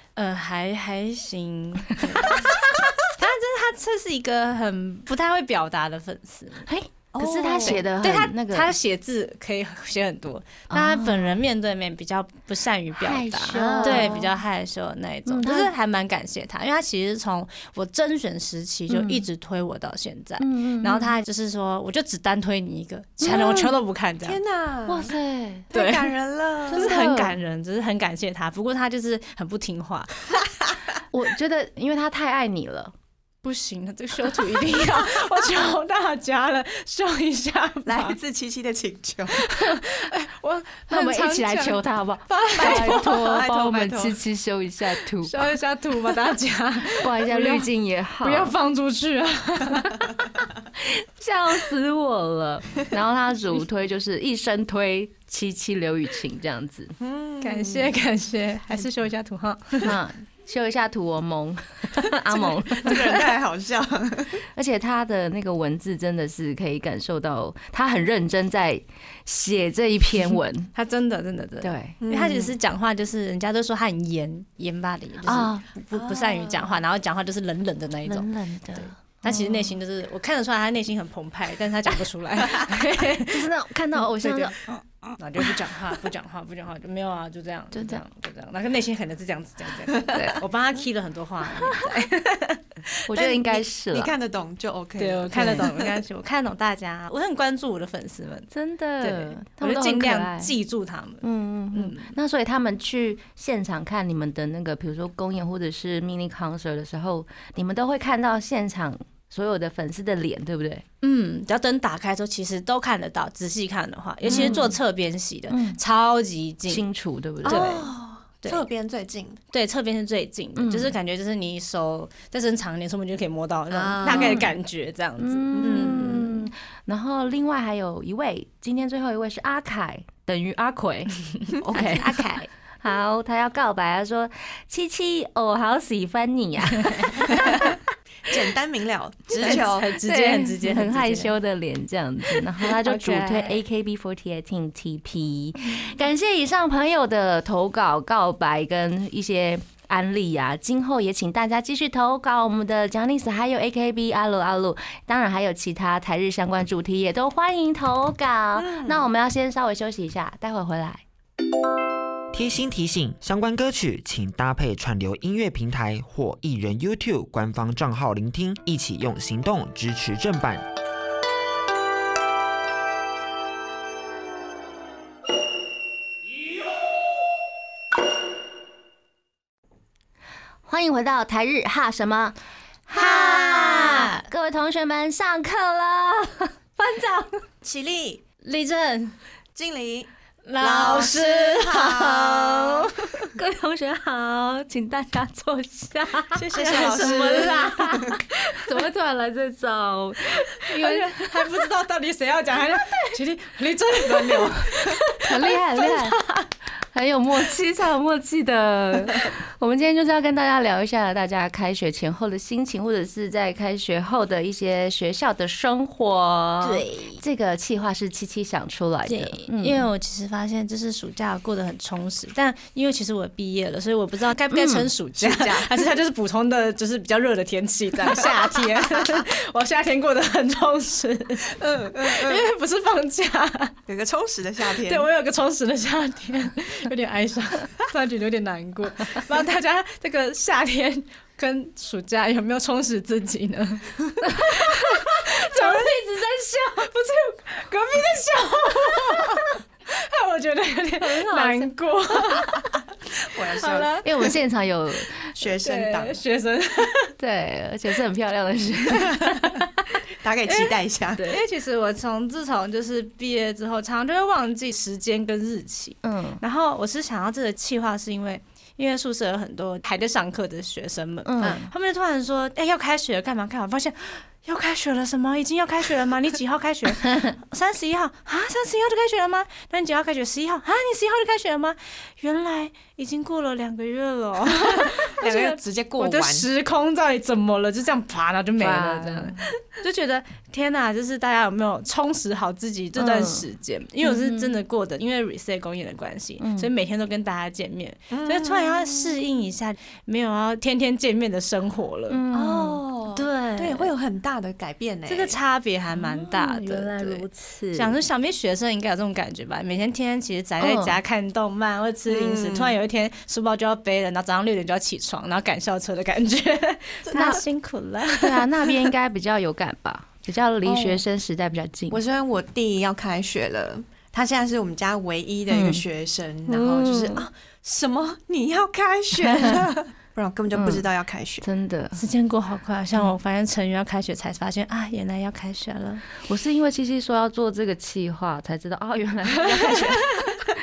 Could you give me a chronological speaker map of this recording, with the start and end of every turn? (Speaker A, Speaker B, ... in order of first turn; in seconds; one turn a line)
Speaker A: 0.1-2.5
Speaker A: 3.1-6.7
Speaker B: 6.7-8.7
Speaker C: 7.1-7.8
Speaker A: 7.6-24.4
Speaker B: 10.7-11.4
Speaker B: 13.0-14.3
Speaker C: 13.5-14.3
Speaker B: 15.2-15.7
Speaker B: 18.9-19.2
Speaker B: 20.4-21.1
Speaker B: 23.2-23.8
Speaker C: 24.2-25.1
Speaker B: 24.9-25.7
Speaker C: 25.7-26.9
Speaker A: 25.7-26.1
Speaker A: 26.7-30.2
Speaker B: 26.7-27.3
Speaker B: 31.1-32.9
Speaker A: 33.4-38.2
Speaker C: 37.9-39.5
Speaker A: 39.4-43.4
Speaker B: 40.9-45.5
Speaker C: 42.6-44.2
Speaker A: 45.2-47.7
Speaker B: 46.9-48.5
Speaker A: 48.2-50.1
Speaker B: 50.8-56.9
Speaker C: 57.0-57.9
Speaker A: 57.4-59.9
Speaker B: 59.8-63.1
Speaker C: 62.4-64.4
Speaker B: 64.5-70.7
Speaker A: 70.7-84.6
Speaker B: 71.6-72.0
Speaker C: 72.0-72.5
Speaker B: 75.2-75.6
Speaker C: 75.9-76.8
Speaker B: 78.0-79.7
Speaker B: 83.3-84.5
Speaker A: 85.2-92.8
Speaker B: 87.7-88.0
Speaker B: 93.1-94.1
Speaker C: 93.1-96.0
Speaker A: 95.0-98.5
Speaker B: 95.3-95.7
Speaker B: 98.5-100.5
Speaker A: 99.0-102.1
Speaker B: 101.2-110.8
Speaker A: 111.0-116.8
Speaker B: 114.2-114.8
Speaker C: 114.3-114.6
Speaker B: 115.5-115.8
Speaker B: 116.7-117.8
Speaker C: 117.4-119.4
Speaker A: 117.4-117.9
Speaker A: 119.5-126.3
Speaker B: 120.6-120.9
Speaker C: 123.7-124.5
Speaker B: 124.0-124.5
Speaker B: 125.2-132.2
Speaker C: 125.5-126.3
Speaker A: 131.7-132.5
Speaker B: 132.8-137.8
Speaker A: 136.9-137.5
Speaker C: 137.3-139.9
Speaker A: 139.4-141.3
Speaker B: 139.4-161.0
Speaker A: 142.3-143.6
Speaker C: 158.6-159.1
Speaker D: 162.3-170.6
Speaker B: 180.7-182.4
Speaker B: 182.9-187.4
Speaker A: 182.9-184.2
Speaker C: 187.6-188.2
Speaker A: 188.4-189.2
Speaker C: 189.5-192.9
Speaker A: 190.4-193.3
Speaker B: 193.3-201.5
Speaker A: 196.3-198.2
Speaker C: 196.5-198.2
Speaker A: 200.5-206.4
Speaker B: 202.7-203.1
Speaker B: 204.1-206.2
Speaker B: 206.9-219.9
Speaker A: 216.6-217.2
Speaker A: 219.1-233.8
Speaker B: 224.5-224.9
Speaker C: 225.2-225.8
Speaker C: 231.6-232.4
Speaker C: 233.9-235.1
Speaker A: 234.9-254.3
Speaker B: 244.2-246.2
Speaker B: 251.0-251.7
Speaker C: 253.3-254.0
Speaker B: 254.0-255.3
Speaker C: 255.4-256.2
Speaker A: 255.6-257.1
Speaker B: 257.2-259.9
Speaker C: 259.2-259.5
Speaker C: 260.2-261.3
Speaker A: 261.2-302.2
Speaker B: 266.0-266.4
Speaker B: 271.2-271.7
Speaker B: 277.0-277.3
Speaker C: 284.8-286.5
Speaker B: 288.6-289.4
Speaker B: 293.0-293.4
Speaker B: 294.0-294.5
Speaker B: 296.4-296.7
Speaker C: 298.1-299.2
Speaker B: 302.1-302.8
Speaker C: 302.3-305.4
Speaker A: 303.1-303.9
Speaker A: 305.1-307.2
Speaker B: 305.9-307.9
Speaker A: 307.8-318.5
Speaker B: 310.6-310.9
Speaker C: 312.1-312.8
Speaker C: 317.1-317.4
Speaker B: 317.1-317.4
Speaker B: 318.1-322.0
Speaker C: 320.6-321.0
Speaker C: 321.9-331.4
Speaker B: 325.5-325.9
Speaker B: 326.5-327.2
Speaker B: 329.2-329.6
Speaker B: 330.5-330.9
Speaker B: 331.4-332.0
Speaker A: 331.9-336.0
Speaker B: 336.2-340.3
Speaker A: 339.4-340.3